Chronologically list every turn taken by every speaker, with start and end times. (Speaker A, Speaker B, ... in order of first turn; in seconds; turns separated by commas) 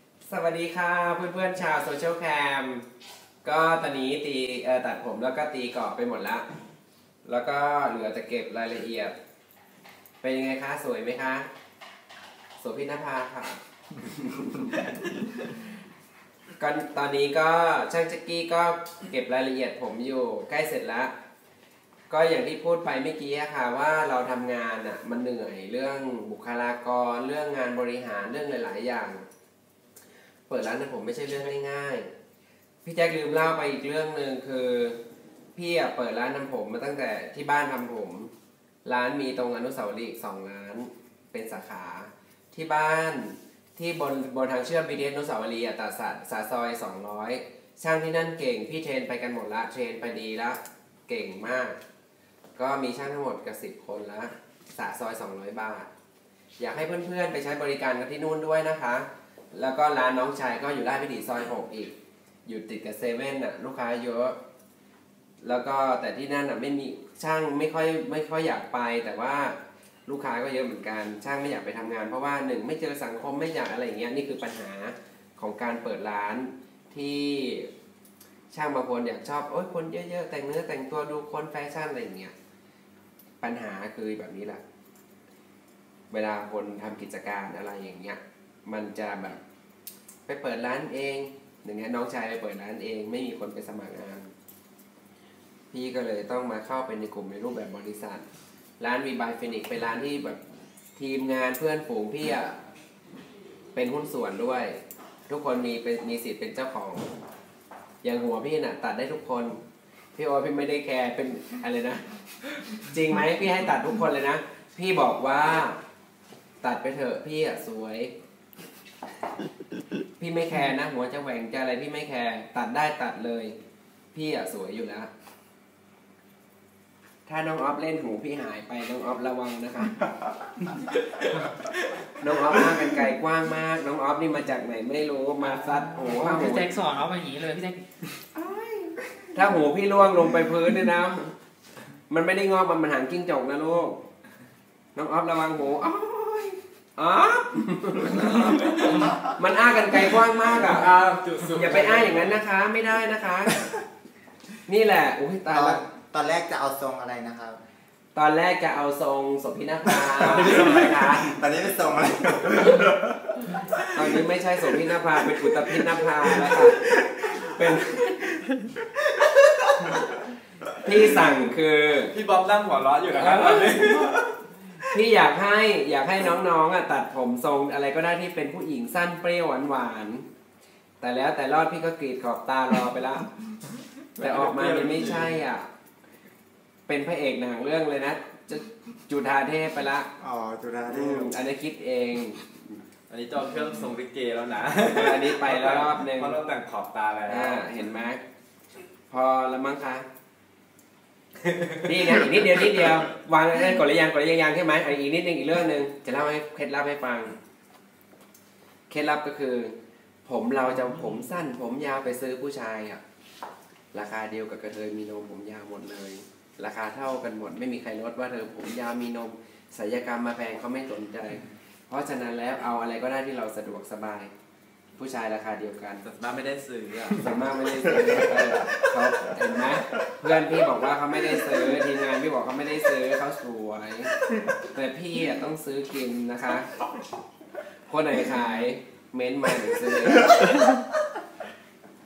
Speaker A: 0.3-2.9, Speaker A: 3.4-6.5, Speaker A: 7.2-9.2, Speaker A: 10.2-11.5, Speaker A: 12.6-14.8, Speaker A: 16.6-21.1, Speaker A: 22.1-29.2, Speaker A: 30.5-32.1, Speaker A: 32.9-35.0, Speaker A: 35.5-38.3, Speaker A: 38.9-51.8, Speaker A: 52.6-55.9, Speaker A: 56.6-61.9, Speaker A: 62.5-64.4, Speaker A: 65.4-77.7, Speaker A: 78.5-82.3, Speaker A: 83.4-84.6, Speaker A: 86.1-89.4, Speaker A: 90.3-94.3, Speaker A: 95.7-98.3, Speaker A: 98.8-100.4, Speaker A: 101.0-102.5, Speaker A: 103.8-107.1, Speaker A: 108.0-109.6, Speaker A: 110.2-112.0, Speaker A: 112.7-115.8, Speaker A: 116.6-118.1, Speaker A: 120.2-123.5, Speaker A: 124.1-125.1, Speaker A: 127.3-130.0, Speaker A: 132.2-136.7, Speaker B: 135.6-138.1, Speaker A: 138.3-141.3, Speaker A: 142.1-144.0, Speaker A: 144.9-150.9, Speaker C: 148.3-149.1, Speaker C: 150.4-152.3, Speaker A: 151.5-153.7, Speaker A: 154.7-155.8, Speaker D: 155.5-157.6, Speaker A: 158.2-161.4, Speaker D: 160.2-163.6, Speaker A: 163.9-168.3, Speaker C: 166.3-166.7, Speaker A: 170.8-172.1, Speaker C: 172.1-174.4, Speaker A: 173.2-173.8, Speaker A: 174.8-180.2, Speaker A: 181.0-183.3, Speaker C: 184.2-185.4, Speaker A: 184.2-185.7, Speaker A: 186.9-190.1, Speaker D: 190.2-191.3, Speaker A: 190.9-192.8, Speaker C: 193.1-197.7, Speaker A: 194.9-196.4, Speaker A: 197.3-198.2, Speaker A: 199.1-200.1, Speaker C: 201.4-202.3, Speaker A: 201.8-207.3, Speaker A: 208.9-209.8, Speaker A: 210.3-213.0, Speaker A: 213.9-224.3, Speaker A: 225.0-226.1, Speaker C: 226.0-227.2, Speaker A: 227.2-236.7, Speaker A: 237.9-240.6, Speaker D: 240.5-240.8